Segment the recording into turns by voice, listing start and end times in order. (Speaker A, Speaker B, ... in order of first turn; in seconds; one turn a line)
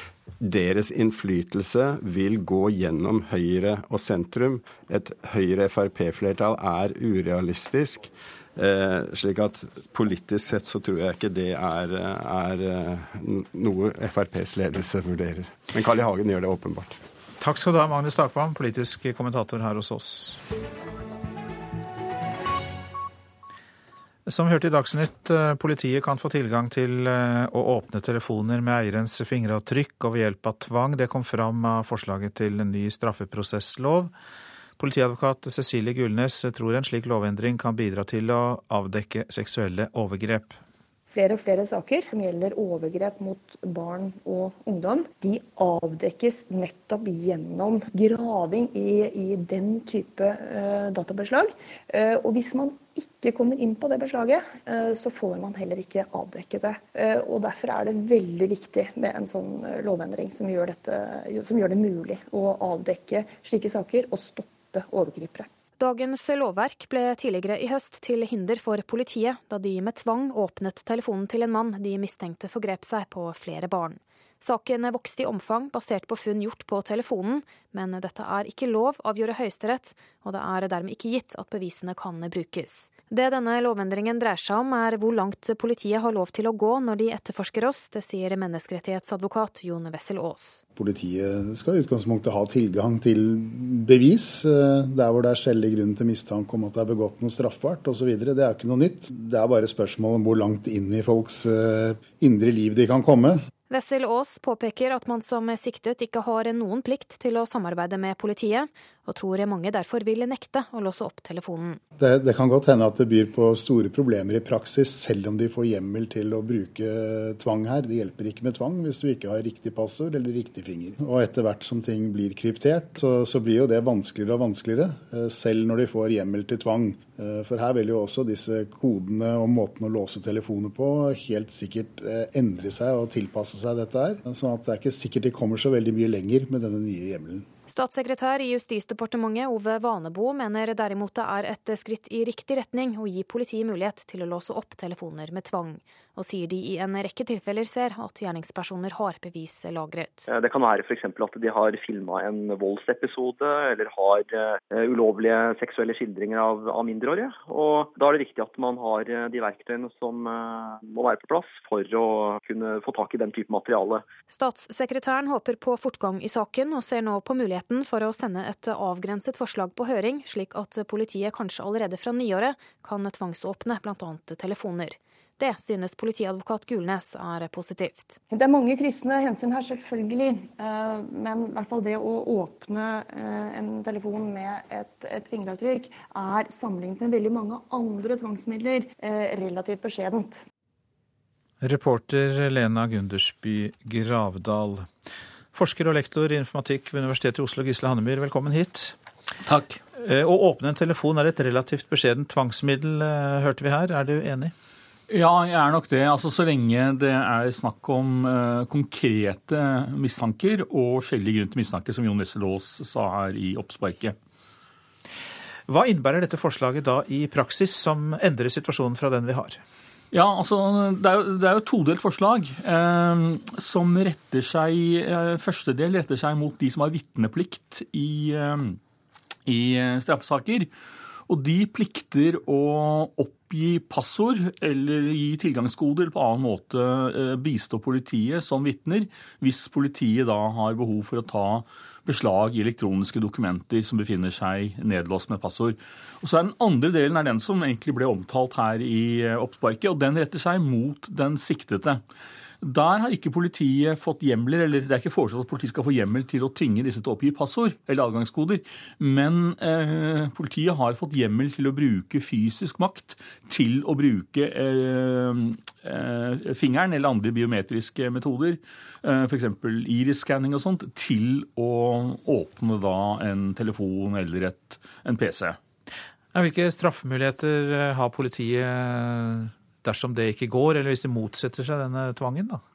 Speaker A: 0.4-17.0
Speaker B: 17.4-20.4
Speaker B: 24.3-34.1
Speaker B: 34.8-40.6
Speaker C: 41.1-65.5
Speaker D: 65.8-90.6
Speaker E: 90.8-103.4
Speaker D: 103.7-111.8
Speaker E: 112.0-137.4
Speaker D: 137.7-150.3
Speaker F: 150.3-164.0
Speaker D: 164.3-178.2
Speaker C: 178.3-190.4
Speaker B: 191.6-194.9
Speaker B: 195.5-198.9
Speaker G: 199.5-199.8
Speaker B: 200.0-204.5
Speaker G: 205.1-214.2
Speaker B: 215.7-219.6
Speaker G: 220.1-228.8
Speaker G: 229.5-230.7
Speaker G: 231.3-252.0
Speaker G: 252.6-275.6
Speaker B: 276.3-282.6